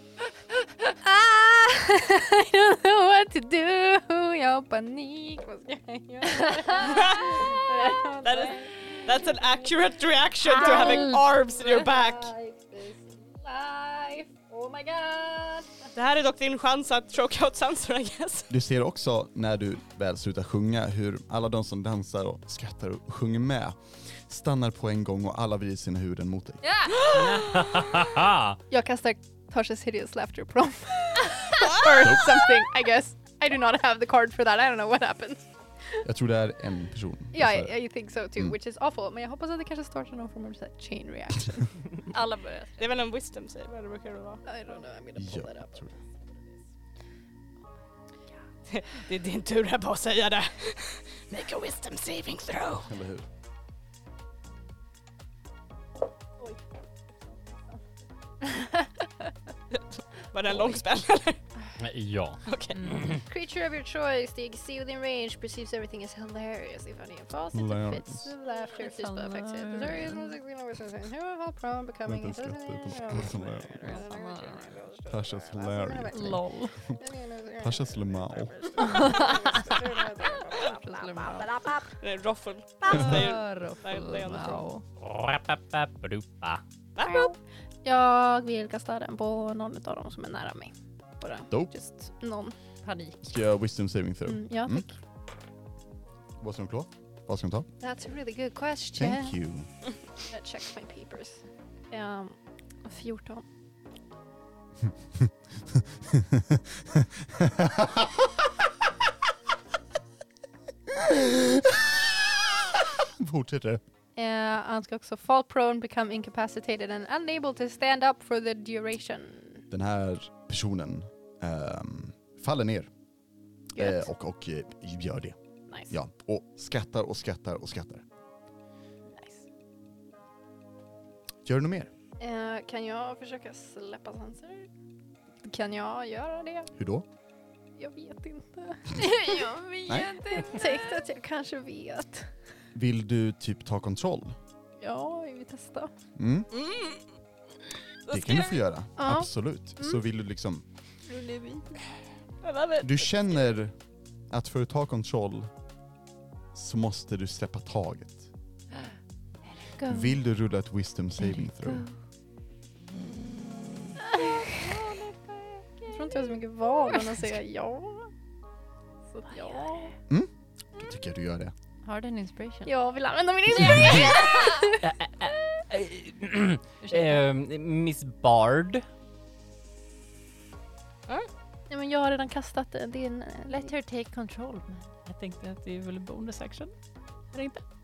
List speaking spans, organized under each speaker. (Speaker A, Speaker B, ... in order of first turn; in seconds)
Speaker A: 0.8-8.7, 10.6-15.9, 28.7-36.0, 37.3-41.8, 44.4-46.5, 63.2-82.0, 87.0-92.5, 94.2-94.9, 97.8-99.3, 100.3-103.5, 114.1-119.6, 123.7-124.1, 129.1-129.4, 132.2-134.7, 135.4-136.7, 137.8-142.3, 144.8-145.9, 149.0-150.0, 151.1-151.8, 164.1-164.6, 165.9-168.1, 169.1-169.9, 172.7-174.8, 181.7-183.7
Speaker B: 6.4-6.9, 10.5-11.2, 26.6-27.1, 42.1-42.8, 62.7-63.1, 68.7-70.3, 73.8-74.6, 76.1-76.8, 78.8-81.5, 82.9-84.8, 92.8-93.2, 159.8-160.2, 164.3-166.3, 169.3-169.6, 171.8-172.7, 173.5-174.7, 176.8-177.2, 183.5-184.9
Speaker C: 6.8-7.6, 8.2-12.3, 15.9-18.5, 31.6-32.1, 42.8-44.4, 48.7-52.9, 59.7-61.4, 62.4-63.1, 82.0-84.7, 86.9-87.3, 146.5-147.1, 148.0-148.6, 152.4-153.2
Speaker D: 18.5-26.6, 32.0-32.4, 36.0-37.7, 45.1-45.9, 52.8-53.2, 60.5-60.8, 67.5-68.3, 72.0-74.0, 75.1-77.0, 77.6-78.6, 93.2-94.8, 96.4-97.7, 99.0-99.7, 105.2-108.5, 110.9-113.8, 119.7-122.9, 123.8-125.4, 125.9-128.0, 131.4-131.9, 136.7-137.1, 139.9-140.1, 142.7-144.3, 146.2-146.5, 148.1-150.6, 152.8-153.7, 154.3-155.5, 156.5-158.3, 159.8-161.9, 170.1-171.5
Speaker E: 27.1-28.6, 61.8-63.2, 85.0-86.6, 174.8-178.8, 185.1-186.7, 187.3-187.6